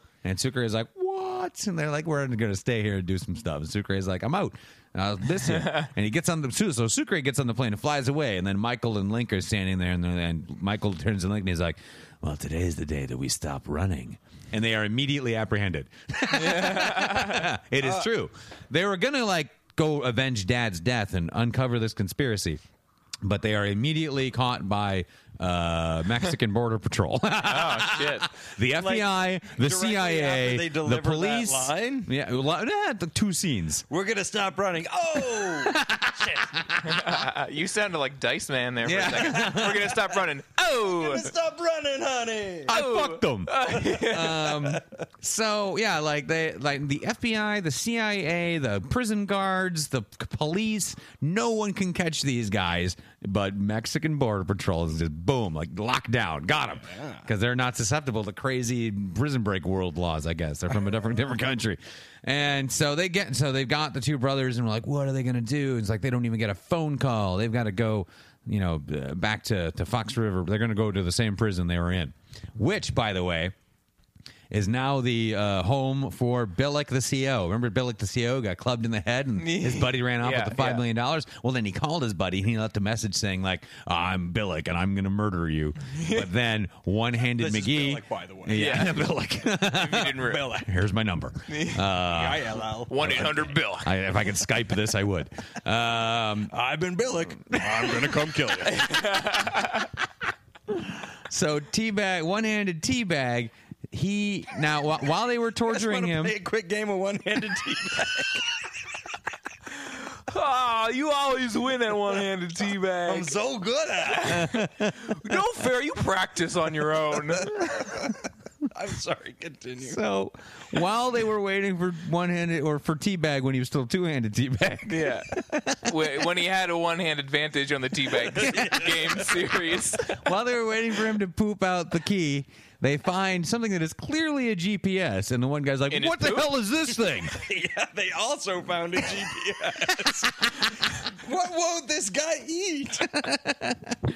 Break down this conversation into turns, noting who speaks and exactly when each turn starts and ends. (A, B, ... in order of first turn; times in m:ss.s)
0:00.2-0:22.6 A
0:05.5-0:05.9 B
0:16.3-0:17.4 B
0:17.8-0:18.1 C
0:23.2-0:33.8 A
0:27.4-0:28.3 B
0:28.8-0:32.1 C
0:33.9-0:36.6 C
0:35.3-0:37.2 A
0:36.8-0:41.3 B
0:38.8-0:40.0 A
0:40.6-0:42.7 C
0:42.7-1:13.5 A
0:42.7-0:44.3 B
0:44.4-0:44.8 C
0:56.8-0:57.3 C
1:14.5-1:36.5 A
1:19.4-1:20.8 B
1:25.9-1:26.2 B
1:27.4-1:29.0 C
1:28.5-1:29.0 B
1:29.6-1:30.4 B
1:30.2-1:30.7 C
1:31.5-1:31.8 B
1:32.0-1:33.3 C
1:32.9-1:33.9 B
1:36.5-1:39.0 C
1:37.5-1:38.4 A
1:38.7-1:39.9 B
1:40.7-1:46.4 A
1:45.7-1:48.4 C
1:49.9-1:53.3 B
1:53.0-1:54.5 C
1:54.1-1:57.6 B
1:54.2-1:55.1 A
1:57.4-1:58.2 C
1:58.7-2:00.0 C
1:59.8-2:06.2 A
2:04.9-2:05.3 B
2:05.8-2:10.2 B
2:08.3-2:09.3 C
2:08.4-2:08.8 A
2:10.1-2:17.4 A
2:15.9-2:16.5 B
2:17.3-2:23.2 C
2:23.1-2:24.0 A